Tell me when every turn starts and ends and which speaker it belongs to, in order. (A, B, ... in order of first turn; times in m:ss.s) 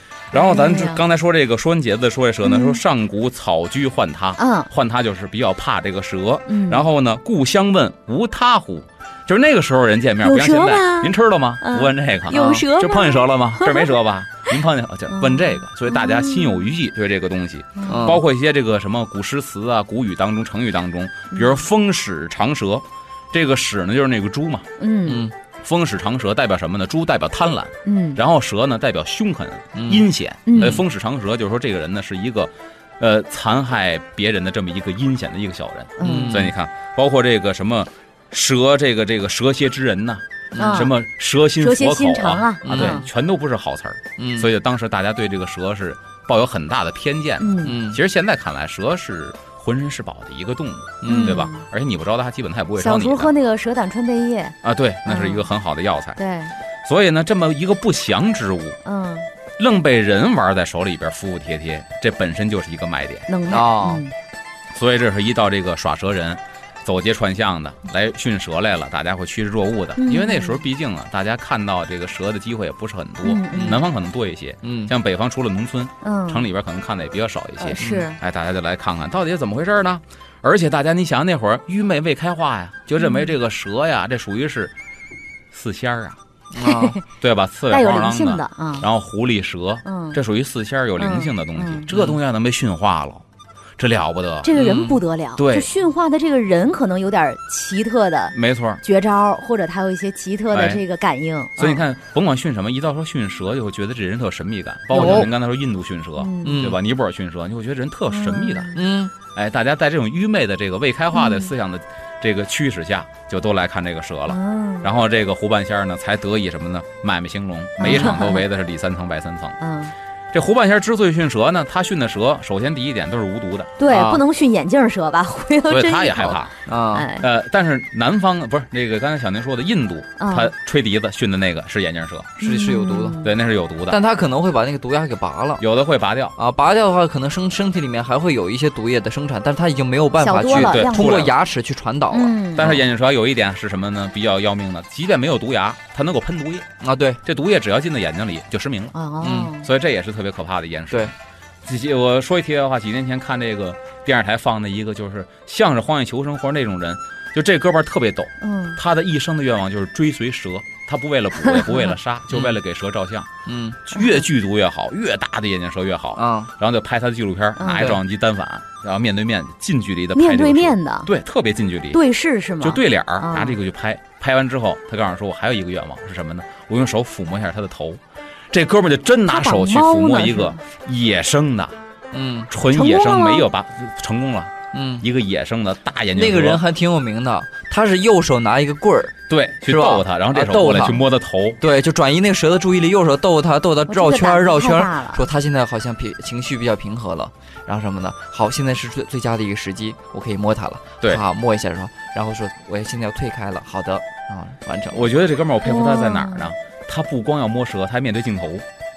0:00.3-0:24.7 A
0:00.3-0:01.0 B
0:02.4-0:02.8 B
0:04.4-0:04.7 B
0:06.5-0:06.8 B
0:10.2-0:13.9 B
0:12.3-0:12.7 C
0:15.1-0:16.7 B
0:17.8-0:18.1 B
0:17.9-0:18.2 C
0:21.3-0:21.6 B
0:24.8-0:25.2 B
0:25.1-0:25.3 C
0:25.6-0:53.3 A
0:27.9-0:28.2 B
0:29.8-0:30.1 C
0:30.5-0:30.8 B
0:36.0-0:36.5 B
0:36.0-0:36.5 C
0:40.5-0:40.9 C
0:40.6-0:40.9 B
0:41.6-0:43.0 B
0:42.6-0:43.1 C
0:44.2-0:44.5 C
0:47.4-0:47.8 B
0:47.6-0:48.0 C
0:51.0-0:51.5 C
0:51.0-0:51.6 B
0:52.8-0:55.5 B
0:54.6-0:56.2 A
0:56.2-0:56.5 B
0:56.8-0:58.8 A
0:58.8-0:59.2 B
0:59.6-1:03.3 A
1:03.3-1:04.1 B
1:03.5-1:04.0 C
1:04.7-1:24.7 A
1:10.0-1:10.6 B
1:13.2-1:13.8 B
1:13.5-1:13.8 C
1:14.6-1:14.9 C
1:16.0-1:16.4 B
1:17.6-1:18.2 B
1:17.8-1:18.1 C
1:23.0-1:23.3 B
1:25.5-1:26.2 A
1:26.5-1:27.0 C
1:26.6-1:27.0 B
1:27.2-1:33.2 A
1:27.7-1:28.9 B
1:29.8-1:30.2 B
1:31.0-1:31.9 B
1:31.9-1:32.2 C
1:33.8-1:34.5 A
1:34.4-1:41.8 B
1:34.6-1:35.0 C
1:35.4-1:35.7 A
1:38.3-1:38.8 A
1:40.5-1:40.8 A
1:41.6-1:48.8 A
1:44.9-1:45.3 B
1:44.9-1:45.3 C
1:46.2-1:46.7 B
1:46.4-1:46.8 C
1:48.1-1:48.8 B
1:48.8-1:49.1 C
1:49.3-1:59.6 A
1:51.1-1:51.5 B
1:54.3-1:54.9 B
1:57.8-1:58.4 B
1:57.9-1:58.2 C
1:59.6-1:59.9 B
2:00.3-2:03.8 A
2:03.8-2:07.2 B
2:03.9-2:04.2 C
2:05.7-2:06.6 A
2:06.7-2:07.1 C
2:07.2-2:12.4 A
2:10.2-2:10.5 B
2:12.4-2:13.3 B
2:12.4-2:13.3 C
2:13.2-2:14.0 A
2:13.9-2:15.6 C
2:15.6-2:16.4 A
2:16.4-2:22.8 C
2:20.2-2:21.3 B
2:20.5-2:21.3 A
2:22.1-2:22.8 B
2:22.6-2:26.7 A
2:26.8-2:27.2 C
2:27.2-2:28.9 A
2:28.9-2:29.7 B
2:29.2-2:29.5 C
2:29.6-2:43.3 A
2:38.4-2:38.8 B
2:41.4-2:41.9 B
2:42.3-2:42.6 C
2:43.4-2:43.8 C
2:43.9-2:52.0 A
2:43.9-2:44.2 B
2:46.2-2:46.5 C
2:47.6-2:47.9 B
2:47.7-2:48.0 C
2:50.1-2:51.1 B
2:51.9-2:53.6 B
2:52.6-3:01.8 A
2:59.3-3:00.6 B
3:02.1-3:02.5 C
3:02.5-3:06.6 A
3:02.7-3:03.5 B
3:04.7-3:05.0 C
3:06.1-3:11.0 C
3:09.3-3:11.6 A
3:11.6-3:25.1 C
3:13.9-3:15.2 B
3:24.9-3:28.7 A
3:25.6-3:26.5 B